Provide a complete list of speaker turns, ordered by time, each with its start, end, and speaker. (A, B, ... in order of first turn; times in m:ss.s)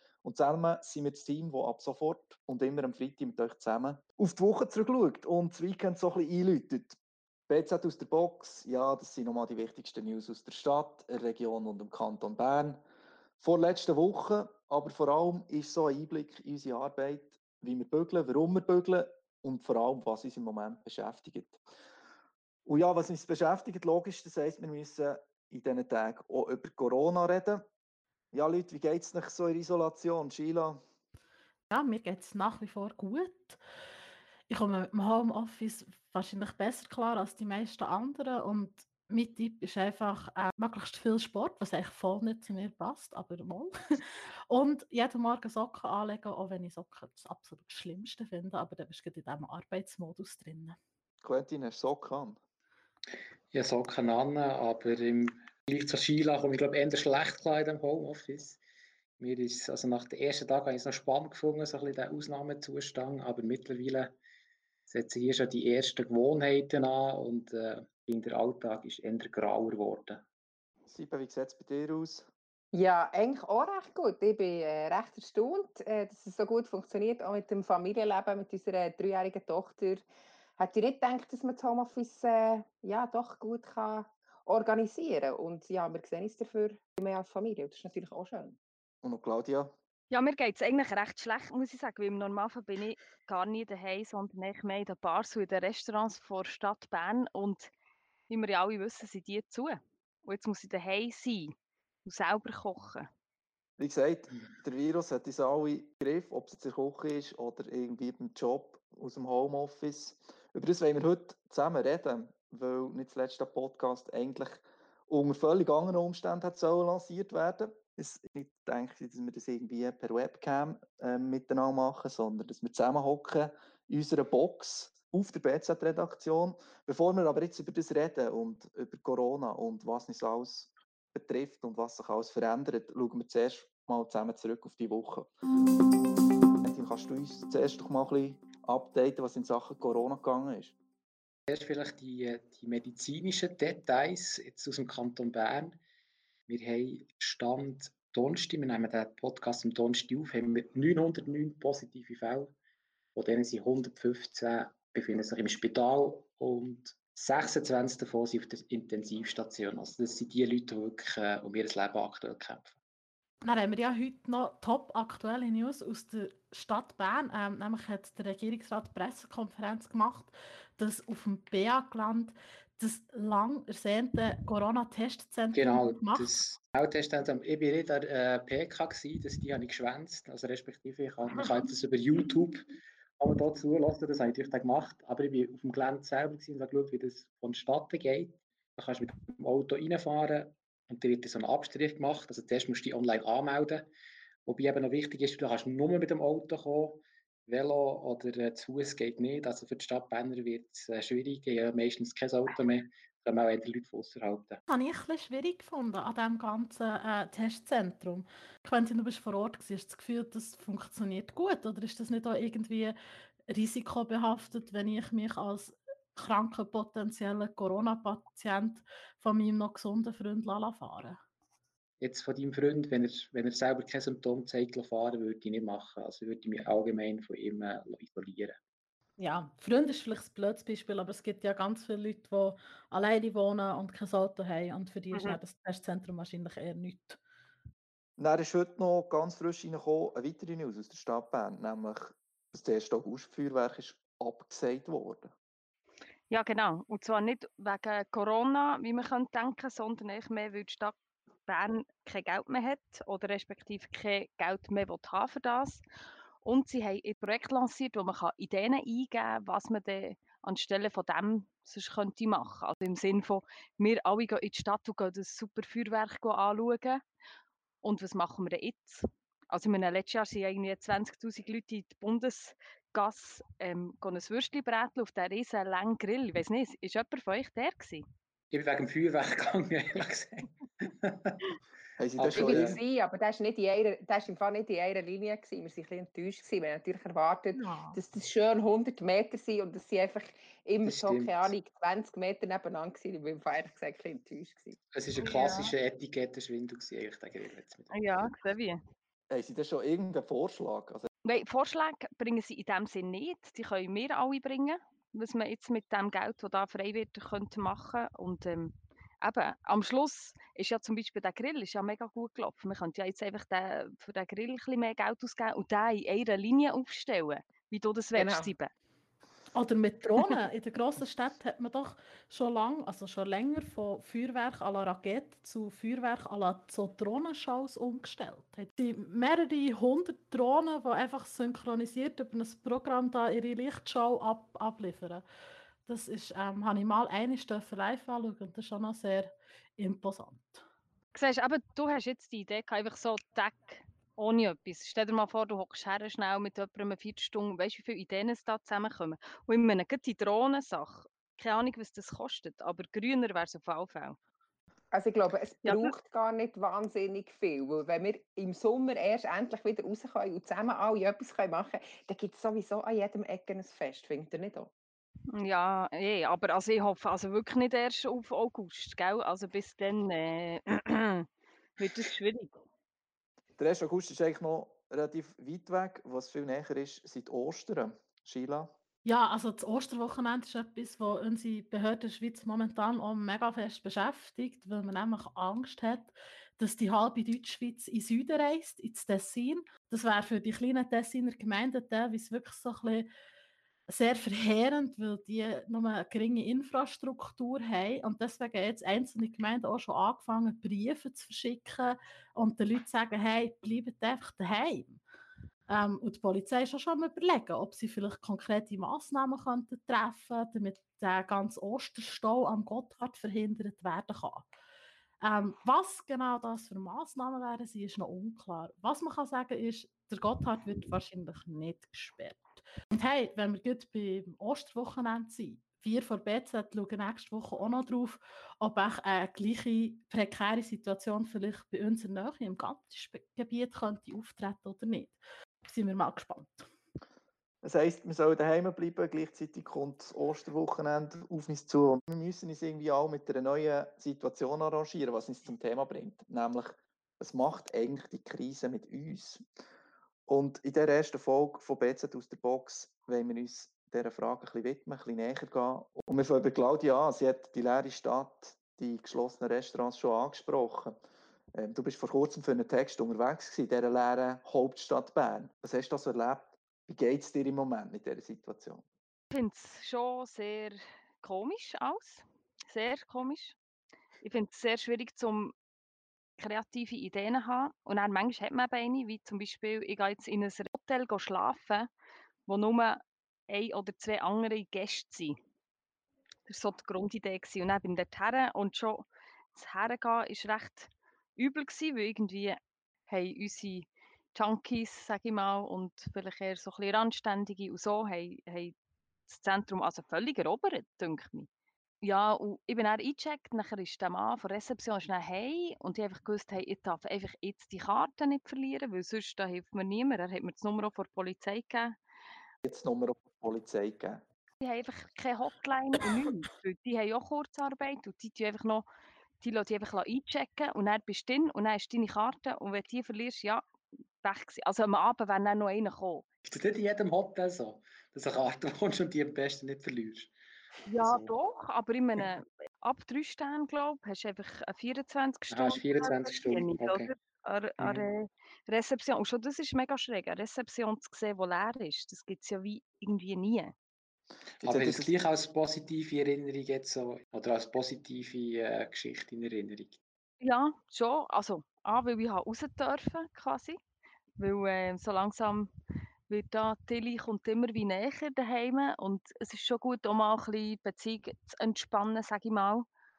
0:00.2-0:07.0 A
0:07.5-0:12.8 A
0:13.4-0:21.6 A
0:22.6-0:27.6 A
0:28.3-0:30.8 A
0:31.7-0:33.6 B
0:34.5-0:43.7 B
0:44.5-0:50.8 B
0:51.2-0:52.4 A
0:53.5-0:58.6 C
0:59.2-1:04.2 C
1:04.9-1:10.2 C
1:10.8-1:12.3 A
1:12.7-1:20.0 D
1:20.6-1:28.6 D
1:29.0-1:29.7 A
1:30.1-1:37.7 E
1:38.3-1:41.5 E
1:42.0-1:43.0 E
1:43.8-2:15.3 A
2:16.6-2:20.8 A
2:21.5-2:25.8 C
2:26.5-2:32.5 C
2:33.1-2:42.7 C
2:43.4-2:56.4 B
2:55.5-3:02.7 C
3:03.2-3:13.9 C
3:14.4-3:24.6 C
3:24.7-3:33.0 B
3:33.5-3:41.2 B
3:42.0-3:48.6 C
3:49.2-3:57.2 B
3:55.1-3:55.4 E
3:58.2-4:05.3 A
4:06.3-4:10.9 E
4:11.5-4:15.8 E
4:16.4-4:27.0 E
4:27.8-4:38.0 E
4:38.5-4:41.3 C
4:42.0-4:42.8 A
4:42.2-4:42.8 C
4:42.3-4:54.8 D
4:47.5-4:48.0 E
4:50.8-4:51.5 C
4:54.9-4:57.9 C
4:55.2-4:55.7 E
4:57.9-4:58.8 E
4:59.3-5:01.1 A
5:01.2-5:18.7 E
5:18.1-5:18.5 D
5:19.5-5:35.2 B
5:35.8-5:40.6 B
5:41.1-5:54.2 E
5:54.9-6:04.7 D
5:55.6-5:55.9 E
6:05.3-6:11.3 E
6:11.8-6:12.5 E
6:13.6-6:18.7 A
6:19.0-6:33.1 B
6:33.9-6:45.0 B
6:45.7-6:54.5 B
6:55.2-7:16.6 B
7:17.6-7:29.4 A
7:30.3-7:41.0 A
7:41.6-7:48.8 A
7:49.3-7:53.6 E
7:54.2-7:55.5 E
7:56.4-8:01.9 E
8:02.5-8:05.4 E
8:06.5-8:18.7 E
8:19.3-8:21.5 E
8:22.0-8:32.0 E
8:32.6-8:34.2 A
8:34.6-8:38.8 E
8:39.4-8:43.7 E
8:44.2-8:46.2 E
8:46.4-8:50.3 C
8:50.9-9:03.7 E
8:51.0-8:51.3 C
8:55.5-8:57.1 C
8:57.8-8:58.1 C
9:04.6-9:10.0 C
9:04.6-9:05.1 A
9:10.4-9:13.8 E
9:14.4-9:15.7 E
9:16.3-9:22.9 E